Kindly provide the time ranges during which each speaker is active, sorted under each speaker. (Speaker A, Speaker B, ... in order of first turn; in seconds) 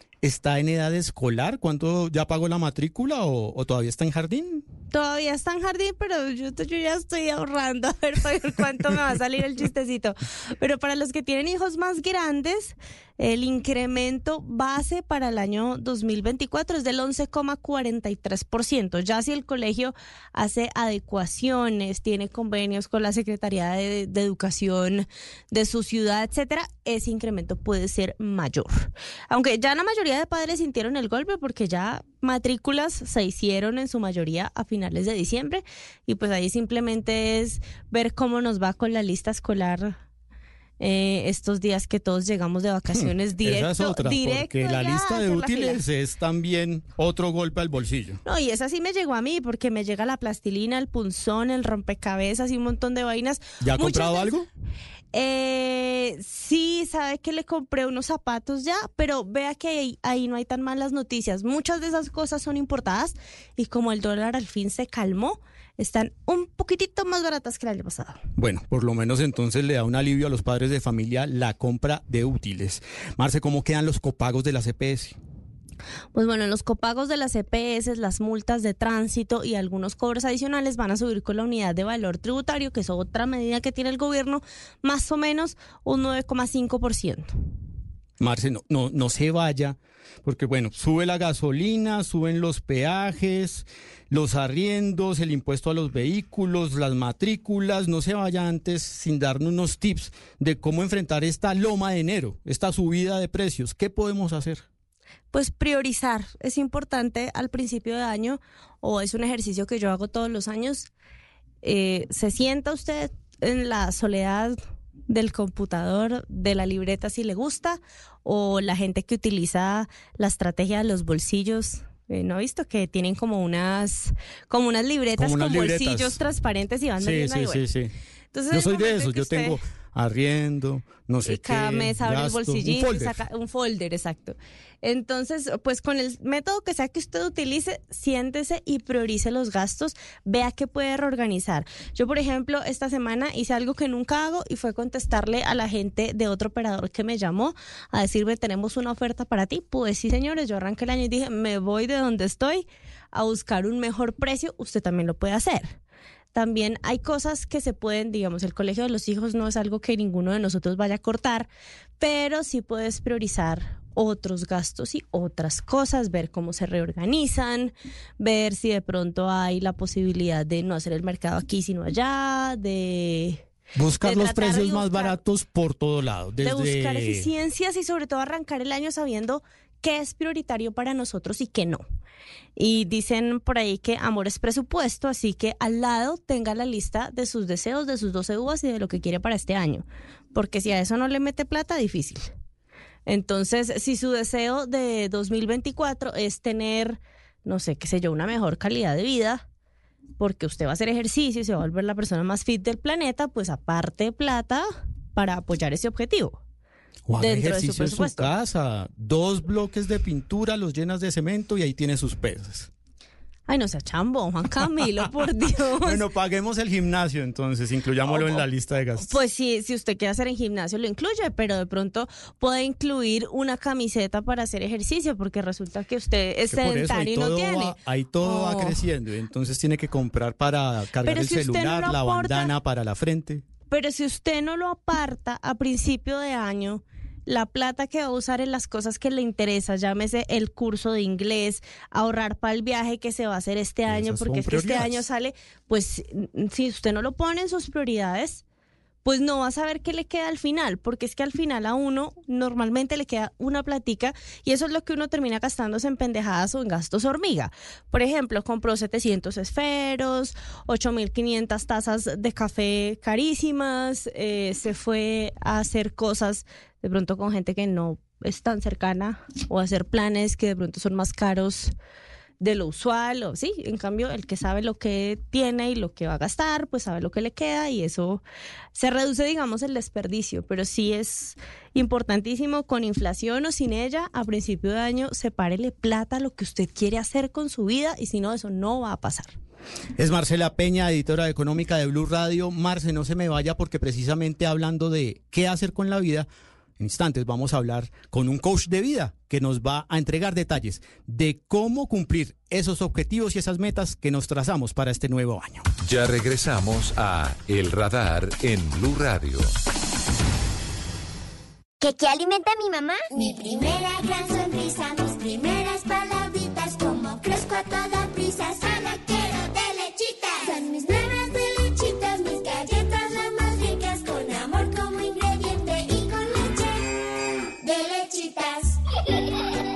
Speaker A: 0.2-4.7, 42.9-48.2, 53.6-54.5, 68.3-75.2, 88.2-104.6, 125.2-126.2, 127.0-127.9, 128.5-133.2, 173.7-177.3, 207.1-212.7, 215.8-219.2, 226.5-233.4, 243.9-245.0, 289.9-296.3, 296.8-305.7
Speaker B: 4.9-40.0, 40.8-45.8, 48.2-54.3, 55.1-68.2, 76.1-87.3, 105.3-110.9, 111.6-114.6, 115.1-127.6, 128.3-129.6, 131.2-155.8, 156.3-161.5, 162.0-173.4, 174.0-175.2, 176.4-181.8, 182.6-192.3, 193.1-199.4, 200.2-206.4, 207.2-208.3, 213.5-216.0, 218.1-218.4, 219.0-228.8, 231.0-232.5, 233.7-248.4, 249.0-271.7, 272.4-278.2, 278.7-289.4
Speaker C: 305.8-309.5
Speaker D: 311.8-326.8, 327.6-328.8